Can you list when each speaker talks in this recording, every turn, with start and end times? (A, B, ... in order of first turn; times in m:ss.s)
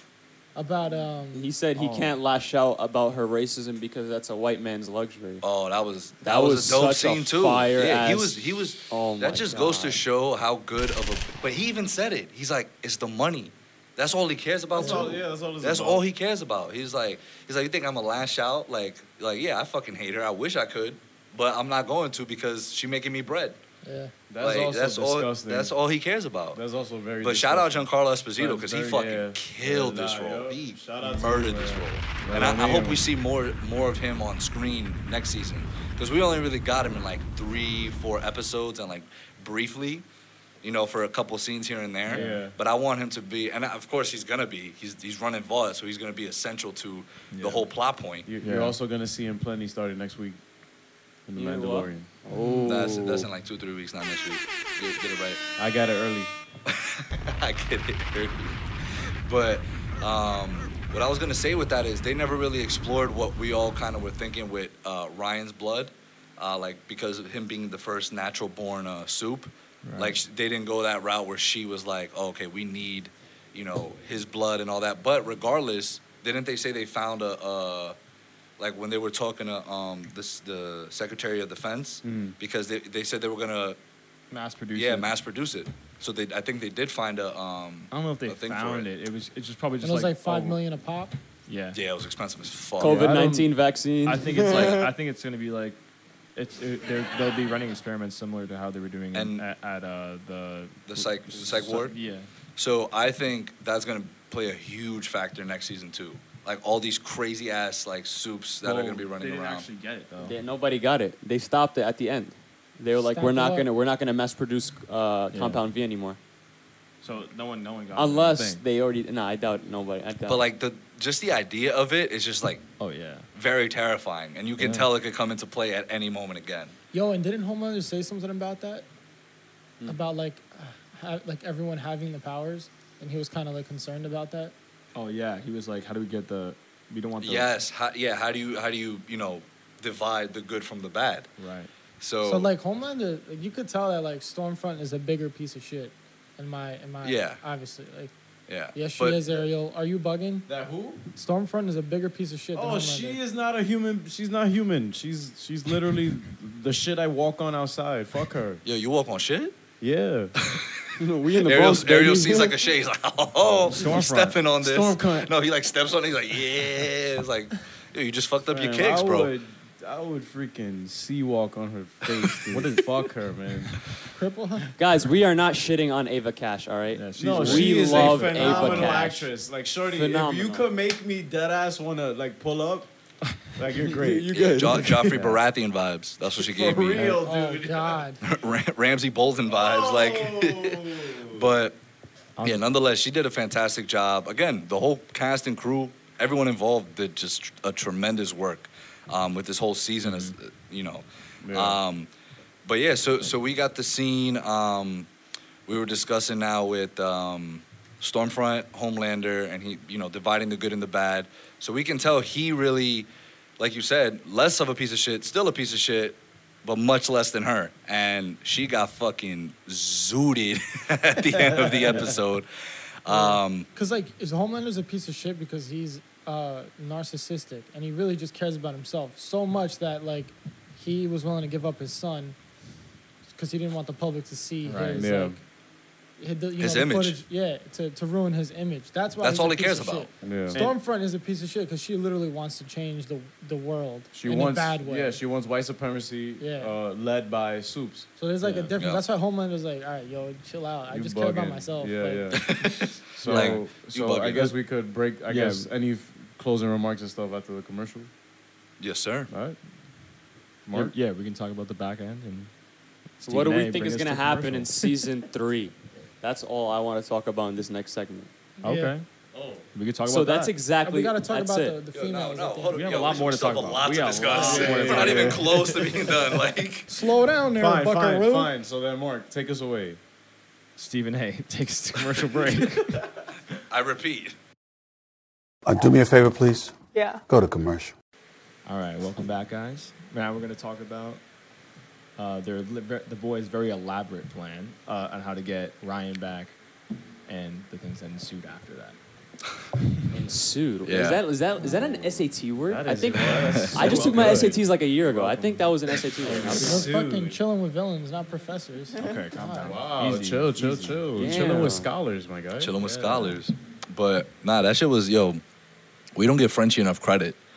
0:00.6-0:01.5 A
0:01.3-0:05.4 B
0:01.8-0:02.1 C
0:05.4-0:23.6 D
0:06.2-0:10.0 B
0:14.7-0:16.0 E
0:14.8-0:15.1 A
0:23.8-0:24.1 A
0:24.3-0:25.7 E
0:24.4-0:26.6 D
0:26.5-0:33.1 E
0:27.2-0:40.0 D
0:40.6-0:48.3 D
0:42.0-0:42.5 C
0:42.1-0:42.5 E
0:47.3-0:47.7 C
0:48.2-0:50.4 E
0:48.4-0:48.7 C
0:51.3-0:52.1 E
0:51.4-0:53.3 B
0:52.3-0:52.8 C
0:52.6-0:55.4 D
0:55.6-0:56.3 E
0:56.7-0:58.6 D
0:59.2-1:18.0 D
1:09.8-1:10.2 C
1:18.6-1:23.8 D
1:22.0-1:22.3 E
1:24.3-1:25.1 C
1:24.7-1:28.9 D
1:27.9-1:30.6 C
1:29.8-1:31.1 A
1:31.5-1:31.8 C
1:31.7-1:33.1 D
1:32.8-1:34.9 B
1:32.9-1:33.5 C
1:34.0-1:35.8 C
1:36.3-1:42.3 C
1:39.1-1:39.4 D
1:40.9-1:42.0 D
1:42.6-1:49.7 D
1:48.6-1:50.4 C
1:50.2-1:56.2 B
1:53.1-1:53.7 A
1:55.3-1:55.6 C
1:57.0-1:58.6 C
1:57.9-2:00.4 B
2:00.3-2:02.6 D
2:02.8-2:03.3 C
2:03.3-2:06.7 D
2:04.6-2:04.9 C
2:06.9-2:08.8 A
2:09.8-2:14.5 A
2:14.9-2:17.5 C
2:17.2-2:21.3 D
2:21.4-2:21.7 C
2:22.0-2:22.5 D
2:22.2-2:28.1 A
2:27.0-2:27.4 D
2:28.5-2:29.2 D
2:28.7-2:30.5 A
2:30.5-2:31.0 E
2:31.1-2:33.2 A
2:32.5-2:38.6 E
2:38.6-2:39.5 D
2:39.8-2:40.3 E
2:40.4-2:40.7 D
2:41.0-2:42.6 B
2:41.3-2:49.3 D
2:43.6-2:44.4 C
2:44.6-2:45.3 E
2:48.5-2:53.8 E
2:52.5-2:52.8 C
2:54.1-2:54.7 A
2:54.8-2:59.3 B
2:56.9-2:59.0 C
2:57.2-3:02.9 E
2:58.3-2:59.0 A
2:59.9-3:00.7 B
3:03.6-3:04.6 E
3:04.0-3:05.1 B
3:04.3-3:07.1 D
3:05.0-3:05.4 C
3:06.2-3:08.0 E
3:06.9-3:07.2 C
3:07.2-3:08.2 A
3:08.2-3:11.8 D
3:09.4-3:11.6 E
3:12.4-3:12.6 C
3:12.4-3:22.1 D
3:20.0-3:20.3 C
3:21.4-3:21.8 E
3:22.6-3:25.1 D
3:25.7-3:33.1 D
3:33.6-3:42.5 D
3:41.4-3:42.0 E
3:43.0-3:43.6 D
3:43.1-3:52.4 A
3:53.3-3:55.4 A
3:54.6-3:55.1 C
3:54.9-3:55.4 E
3:56.2-4:05.2 A
3:56.6-3:57.2 D
3:59.2-4:00.1 D
4:00.2-4:00.6 E
4:04.1-4:08.1 E
4:06.4-4:06.8 A
4:08.2-4:12.3 A
4:08.4-4:08.7 C
4:10.9-4:12.6 E
4:12.3-4:14.5 D
4:13.1-4:18.1 E
4:13.2-4:13.6 C
4:15.3-4:15.7 C
4:18.8-4:19.3 D
4:19.3-4:19.6 E
4:20.7-4:20.9 E
4:20.7-4:22.5 C
4:23.2-4:24.7 C
4:23.2-4:28.3 B
4:28.6-4:28.9 A
4:28.6-4:29.0 C
4:29.3-4:29.6 E
4:29.7-4:30.5 C
4:30.0-4:31.8 B
4:30.8-4:33.0 A
4:31.9-4:36.9 D
4:32.7-4:36.3 C
4:34.3-4:35.6 E
4:36.9-4:38.5 A
4:37.5-4:40.0 E
4:40.8-4:43.0 C
4:43.7-4:44.3 D
4:45.6-4:47.9 F
4:48.6-4:51.2 C
4:52.2-4:56.6 C
4:57.3-4:59.0 C
5:00.1-5:06.8 B
5:00.8-5:01.2 D
5:02.7-5:04.6 E
5:02.9-5:04.6 C
5:05.1-5:05.5 C
5:06.2-5:07.4 E
5:06.2-5:06.8 C
5:06.6-5:09.8 A
5:09.0-5:11.7 C
5:09.6-5:12.8 E
5:11.1-5:11.9 B
5:12.6-5:15.4 D
5:12.8-5:13.4 C
5:16.2-5:17.4 D